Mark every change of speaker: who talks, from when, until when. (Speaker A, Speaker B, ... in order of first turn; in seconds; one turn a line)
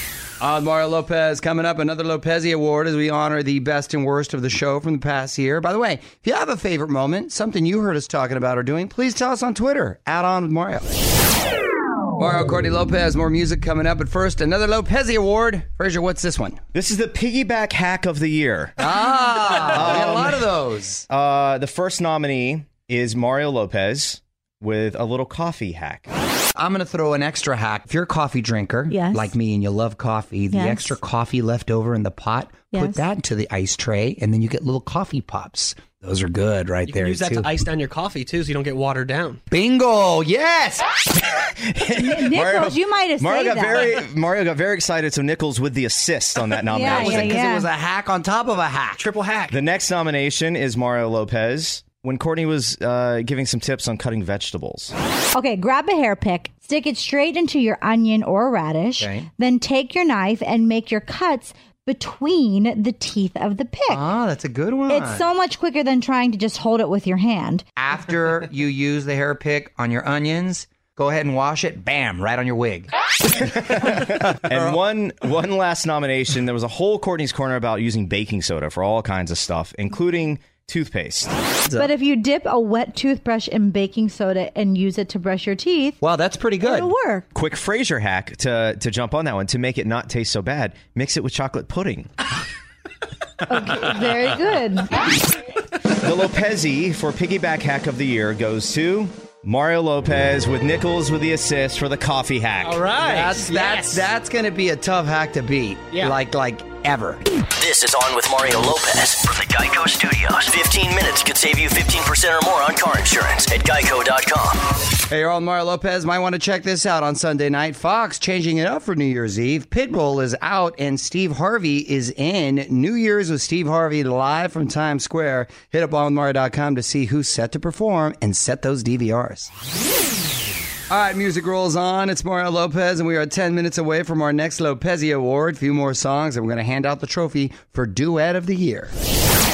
Speaker A: 0.4-10.9
Speaker A: 12.2-16.6
Speaker B: 16.7-18.8
Speaker A: 18.8-21.1
Speaker B: 19.4-20.5
Speaker B: 21.1-26.1
Speaker A: 26.6-37.6
Speaker C: 28.9-29.3
Speaker C: 30.5-31.0
Speaker C: 32.7-33.0
Speaker D: 36.9-39.4
Speaker A: 39.5-40.9
Speaker B: 41.3-47.4
Speaker C: 42.0-44.0
Speaker C: 46.7-47.7
Speaker A: 46.9-49.5
Speaker B: 49.5-54.9
Speaker C: 55.3-64.0
Speaker A: 59.0-59.2
Speaker A: 63.9-65.2
Speaker C: 64.9-67.6
Speaker A: 67.8-74.8
Speaker B: 73.8-81.3
Speaker A: 81.7-81.9
Speaker C: 81.8-86.0
Speaker A: 86.0-86.9
Speaker C: 86.6-87.2
Speaker B: 87.3-92.1
Speaker C: 93.5-95.0
Speaker B: 96.0-102.9
Speaker D: 102.7-104.0
Speaker A: 103.0-107.2
Speaker E: 107.6-114.6
Speaker A: 115.1-129.5
Speaker A: 130.9-138.9